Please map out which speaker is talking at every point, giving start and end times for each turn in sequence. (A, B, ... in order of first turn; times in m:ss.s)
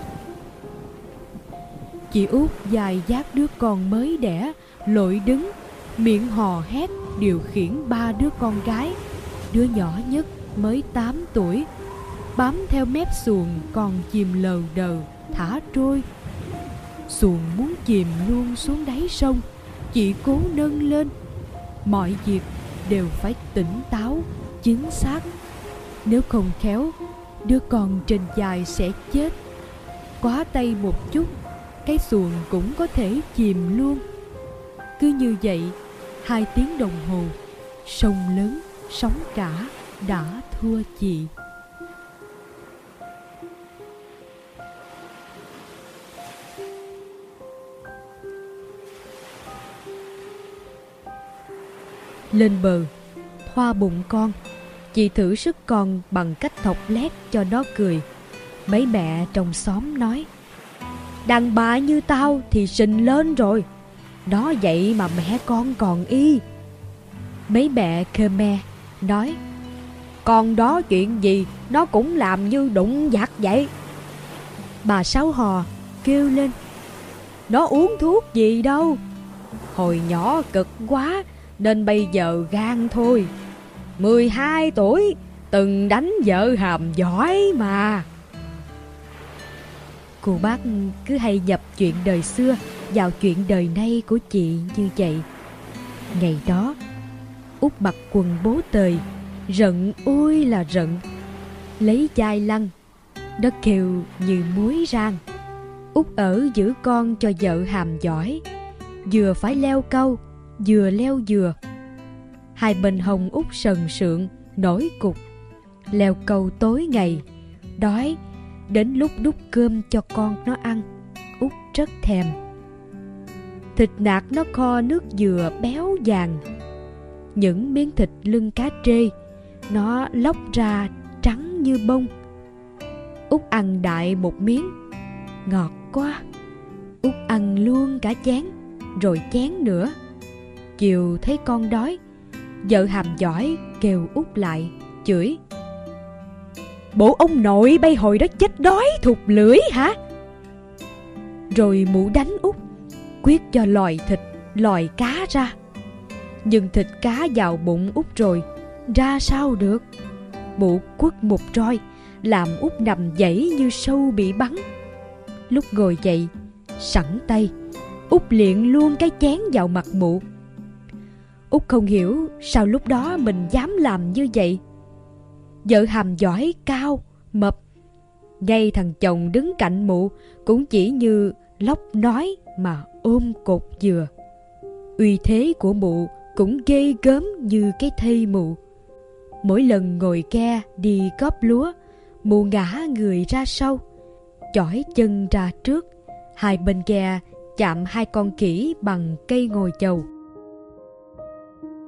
0:02.1-0:09.0 A
0:09.5-0:11.7 A
0:12.4-0:16.0 A
0:17.1-0:21.1 A
0:21.8-0:25.3 A
0:26.0-0:29.3 A
0:30.2-0:34.0 A
0:35.0-0:41.3 A
0:52.3-0:52.9 A
0:53.4-0:54.4 A
0:54.9-0:58.0 A
0:58.7-1:00.3 A
1:01.3-1:03.7 A
1:04.3-1:06.4 A
1:07.5-1:09.4 A
1:10.2-1:13.7 A
1:14.8-1:16.5 A
1:17.5-1:19.0 A
1:19.7-1:23.3 A
1:24.0-1:28.1 A
1:30.2-1:35.2 A
1:36.2-1:36.8 A
1:37.6-1:41.0 A
1:41.8-1:42.7 A
1:43.4-1:45.2 A
1:45.9-1:48.4 A
1:49.1-1:51.6 A
1:52.6-1:55.2 A
1:55.9-1:57.2 A
1:57.8-1:58.2 A
1:58.7-2:00.8 A
2:01.4-2:02.4 A
2:03.8-2:06.4 A
2:07.4-2:09.1 A
2:09.7-2:12.1 A
2:13.3-2:14.7 A
2:15.5-2:16.2 A
2:17.0-2:19.9 A
2:20.8-2:22.0 A
2:22.6-2:25.4 A
2:26.9-2:29.9 A
2:31.5-2:32.6 A
2:33.2-2:35.6 A
2:36.4-2:39.8 A
2:40.6-2:44.6 A
2:45.5-2:47.5 A
2:48.1-2:50.2 A
2:51.5-2:54.6 A
2:55.6-2:57.6 A
2:58.4-3:04.1 A
3:05.0-3:08.6 A
3:09.4-3:11.7 A
3:12.2-3:13.8 A
3:14.5-3:15.9 A
3:16.4-3:20.1 A